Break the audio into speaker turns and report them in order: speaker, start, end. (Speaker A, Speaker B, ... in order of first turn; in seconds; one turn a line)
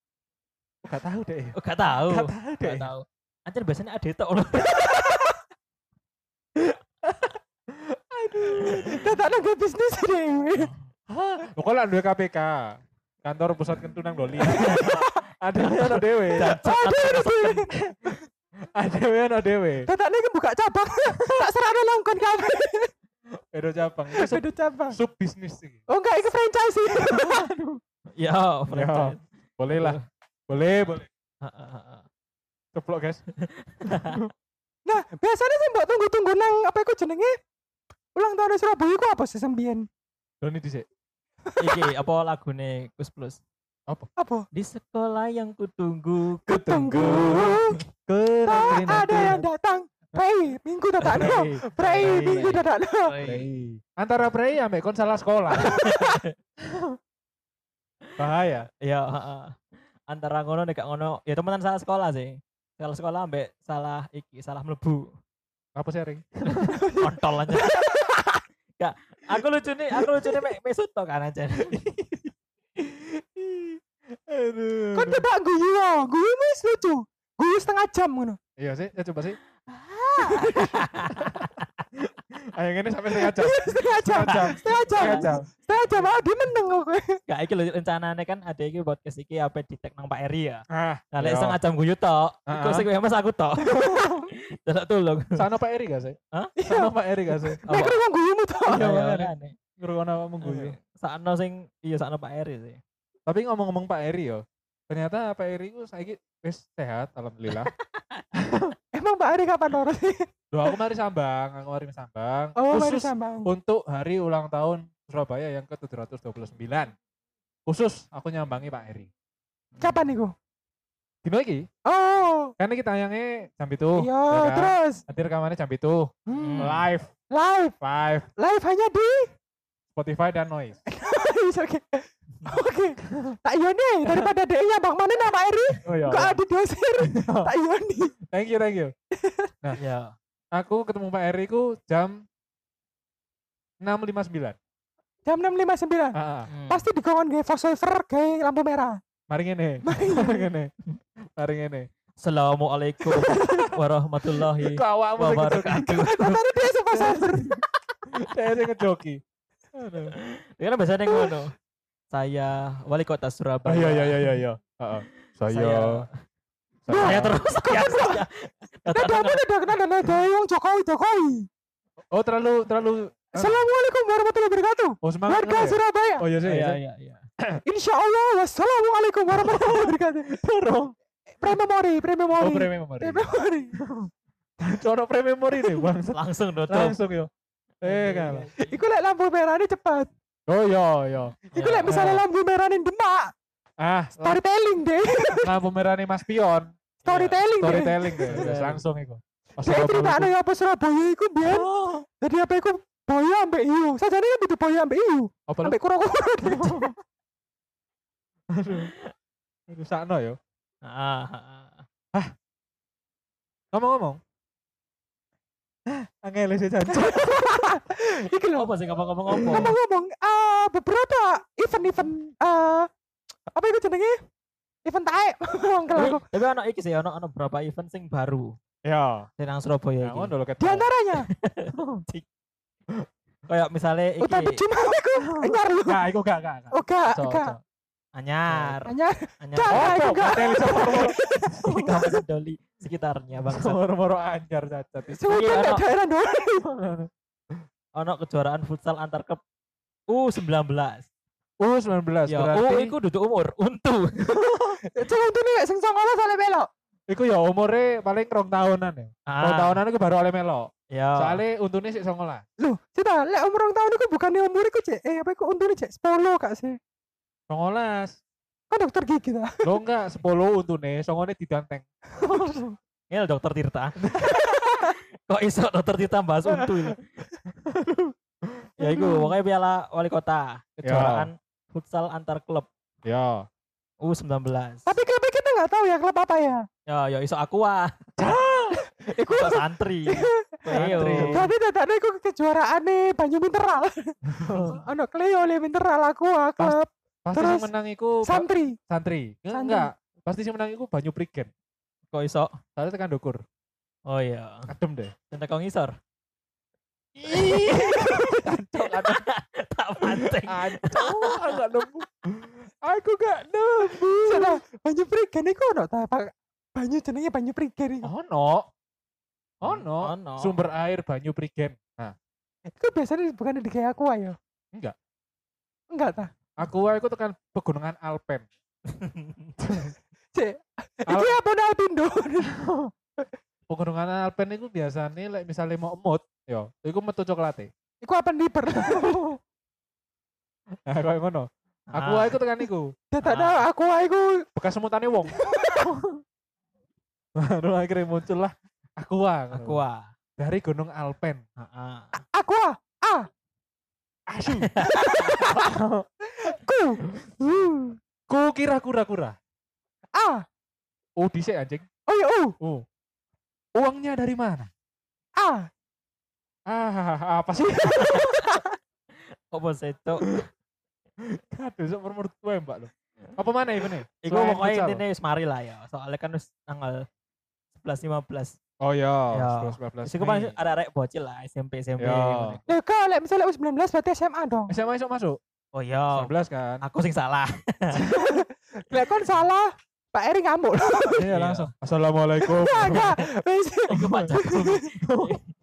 Speaker A: 0.8-1.5
Speaker B: 1.6-5.1
Speaker A: 2.1-2.9
Speaker A: 7.7-9.0
Speaker B: 8.6-8.9
Speaker C: 8.8-10.7
Speaker A: 11.1-16.6
Speaker B: 14.4-15.0
Speaker C: 14.5-15.2
Speaker B: 15.6-17.6
Speaker C: 16.4-17.7
Speaker A: 17.9-18.2
Speaker A: 18.7-19.9
Speaker C: 19.9-22.9
Speaker A: 21.1-21.5
Speaker A: 23.5-25.8
Speaker C: 24.1-24.9
Speaker C: 25.9-27.5
Speaker A: 26.9-27.8
Speaker B: 28.2-30.0
Speaker A: 28.7-30.0
Speaker A: 30.5-31.1
Speaker B: 31.4-32.0
Speaker A: 32.7-33.2
Speaker B: 33.4-34.2
Speaker A: 33.8-34.3
Speaker C: 34.9-37.3
Speaker C: 38.1-39.9
Speaker A: 40.4-40.9
Speaker C: 41.5-41.9
Speaker B: 41.6-43.4
Speaker C: 44.2-44.5
Speaker B: 44.5-47.8
Speaker C: 46.5-47.8
Speaker A: 46.5-49.4
Speaker C: 48.5-53.1
Speaker B: 48.6-49.4
Speaker B: 51.0-53.5
Speaker A: 51.1-52.4
Speaker A: 53.2-56.0
Speaker B: 55.6-56.3
Speaker A: 56.6-57.0
Speaker A: 58.2-58.7
Speaker B: 58.8-65.1
Speaker A: 65.8-66.8
Speaker C: 66.7-68.1
Speaker B: 67.0-68.2
Speaker B: 68.8-71.7
Speaker A: 71.7-75.2
Speaker C: 74.9-78.4
Speaker A: 78.6-79.4
Speaker B: 79.7-81.5
Speaker C: 80.2-80.8
Speaker A: 81.1-81.5
Speaker A: 82.3-85.5
Speaker C: 83.1-87.2
Speaker B: 84.2-85.3
Speaker B: 87.3-95.4
Speaker A: 90.7-91.6
Speaker A: 92.5-92.9
Speaker C: 93.6-94.3
Speaker A: 95.3-97.6
Speaker C: 96.6-96.9
Speaker C: 97.6-98.9
Speaker B: 97.7-98.0
Speaker B: 98.7-99.5
Speaker A: 98.7-100.8
Speaker B: 100.4-102.8
Speaker A: 103.3-107.7
Speaker A: 108.3-108.7
Speaker C: 108.9-110.3
Speaker A: 110.5-116.9
Speaker C: 112.6-113.5
Speaker A: 117.7-119.1
Speaker B: 119.7-120.0
Speaker C: 119.8-120.3
Speaker A: 121.2-121.7
Speaker C: 121.8-122.5
Speaker A: 122.6-127.1
Speaker C: 124.0-125.0
Speaker C: 126.3-126.7
Speaker B: 126.3-126.8
Speaker C: 127.3-127.8
Speaker A: 127.8-128.3
Speaker C: 128.4-129.3
Speaker A: 129.9-130.8
Speaker C: 130.9-138.1
Speaker A: 135.8-136.4
Speaker A: 137.0-137.5
Speaker A: 138.2-138.9
Speaker C: 139.2-139.5
Speaker B: 139.8-140.1
Speaker A: 140.5-142.2
Speaker A: 143.8-144.6
Speaker C: 145.2-149.0
Speaker A: 146.1-146.5
Speaker B: 146.5-146.8
Speaker A: 149.3-150.7
Speaker C: 149.8-150.5
Speaker A: 151.4-151.9
Speaker B: 152.2-156.4
Speaker C: 153.1-153.7
Speaker A: 154.6-156.4
Speaker C: 156.0-157.6
Speaker A: 156.9-159.2
Speaker A: 159.7-160.1
Speaker B: 160.1-161.5
Speaker B: 162.1-164.4
Speaker A: 163.7-166.1
Speaker B: 165.5-166.1
Speaker A: 166.8-167.3
Speaker C: 166.9-168.2
Speaker B: 167.0-169.4
Speaker C: 168.9-171.5
Speaker A: 172.1-173.6
Speaker C: 173.3-176.3
Speaker A: 175.0-176.8
Speaker B: 176.4-177.2
Speaker C: 177.6-180.3
Speaker A: 179.4-180.9
Speaker C: 181.4-183.8
Speaker A: 182.4-187.3
Speaker B: 186.1-187.0
Speaker A: 187.8-188.5
Speaker B: 187.8-188.8
Speaker C: 188.6-190.1
Speaker A: 190.5-192.2
Speaker B: 191.5-192.0
Speaker C: 191.5-193.3
Speaker A: 193.8-194.4
Speaker C: 194.2-195.5
Speaker A: 195.4-196.7
Speaker C: 197.0-198.4
Speaker B: 197.0-198.8
Speaker A: 197.6-200.3
Speaker C: 199.6-201.7
Speaker B: 201.5-202.0
Speaker C: 202.2-206.9
Speaker A: 205.5-205.8
Speaker A: 206.4-206.9
Speaker A: 208.5-208.9
Speaker A: 209.7-210.4
Speaker B: 210.8-211.8
Speaker A: 213.7-214.2
Speaker A: 215.9-217.5
Speaker C: 216.9-218.7
Speaker B: 218.5-219.7
Speaker C: 219.3-222.9
Speaker A: 219.4-219.7
Speaker C: 223.5-224.2
Speaker C: 224.8-226.2
Speaker B: 225.9-228.6
Speaker A: 228.8-229.3
Speaker B: 229.4-230.3
Speaker A: 230.0-230.9
Speaker C: 230.6-231.3
Speaker B: 231.3-232.2
Speaker A: 231.7-232.0
Speaker B: 233.5-234.6
Speaker C: 234.2-236.0
Speaker A: 235.4-237.6
Speaker C: 236.7-237.6
Speaker B: 238.1-240.4
Speaker A: 238.5-238.8
Speaker C: 238.8-242.1
Speaker A: 239.7-241.9
Speaker B: 241.6-243.8
Speaker A: 243.4-245.2
Speaker C: 245.2-246.7
Speaker B: 245.2-245.8
Speaker A: 246.6-247.1
Speaker B: 247.9-249.4
Speaker B: 250.1-251.1
Speaker A: 251.6-252.9
Speaker B: 252.3-254.6
Speaker C: 254.9-256.7
Speaker A: 257.1-262.4
Speaker B: 259.3-259.8
Speaker B: 260.9-261.4
Speaker C: 262.6-266.8
Speaker A: 267.5-268.2
Speaker C: 268.7-269.7
Speaker A: 269.6-271.9
Speaker C: 272.2-272.7
Speaker B: 273.1-277.0
Speaker C: 274.2-274.9
Speaker A: 277.5-278.7
Speaker C: 278.8-279.3
Speaker B: 278.8-282.7
Speaker A: 280.8-281.3
Speaker A: 283.0-283.4
Speaker B: 284.0-284.9
Speaker C: 284.9-286.6
Speaker B: 286.9-287.9
Speaker A: 288.2-288.8
Speaker C: 288.7-297.7
Speaker B: 289.3-291.5
Speaker A: 290.7-291.5
Speaker A: 294.3-294.8
Speaker A: 296.6-301.5
Speaker C: 298.2-298.8
Speaker C: 299.5-299.9
Speaker B: 302.1-302.5
Speaker A: 302.8-303.4
Speaker B: 304.1-304.7
Speaker A: 304.7-305.1
Speaker B: 305.3-305.9
Speaker A: 307.1-309.2
Speaker B: 307.4-311.6
Speaker C: 307.7-308.3
Speaker A: 310.0-314.6
Speaker C: 314.2-318.1
Speaker A: 318.0-318.7
Speaker B: 319.6-320.6
Speaker A: 319.6-322.1
Speaker C: 322.7-324.4
Speaker C: 325.9-326.3
Speaker A: 326.6-328.4
Speaker B: 328.9-329.5
Speaker A: 329.6-329.9
Speaker C: 330.3-332.5
Speaker A: 331.1-331.4
Speaker A: 332.5-332.9
Speaker A: 333.7-337.7
Speaker C: 338.0-339.4
Speaker A: 338.9-339.1
Speaker A: 340.9-342.9
Speaker B: 341.9-342.4
Speaker C: 343.1-344.4
Speaker B: 343.2-343.6
Speaker A: 344.6-346.2
Speaker C: 345.3-345.9
Speaker A: 347.4-349.8
Speaker B: 349.5-350.1
Speaker A: 350.4-351.4
Speaker B: 351.6-352.1
Speaker C: 352.2-353.3
Speaker A: 354.3-356.1
Speaker B: 354.6-355.0
Speaker C: 354.8-355.7
Speaker C: 356.3-358.0
Speaker A: 358.3-359.4
Speaker C: 360.1-360.4
Speaker A: 361.2-361.8
Speaker C: 362.1-362.5
Speaker A: 362.6-362.8
Speaker A: 363.8-364.7
Speaker C: 365.4-365.7
Speaker A: 366.7-368.4
Speaker C: 368.0-368.6
Speaker B: 368.0-368.3
Speaker B: 369.5-370.4
Speaker A: 371.3-375.0
Speaker B: 374.2-377.1
Speaker B: 377.7-378.6
Speaker A: 378.8-380.5
Speaker B: 379.3-382.7
Speaker A: 382.0-382.6
Speaker C: 382.7-384.7
Speaker A: 384.7-385.4
Speaker B: 385.7-388.0
Speaker A: 386.1-386.8
Speaker C: 388.0-391.3
Speaker A: 391.1-393.2
Speaker B: 391.3-391.7
Speaker C: 392.4-394.8
Speaker B: 393.9-395.4
Speaker A: 394.0-394.3
Speaker A: 395.0-395.4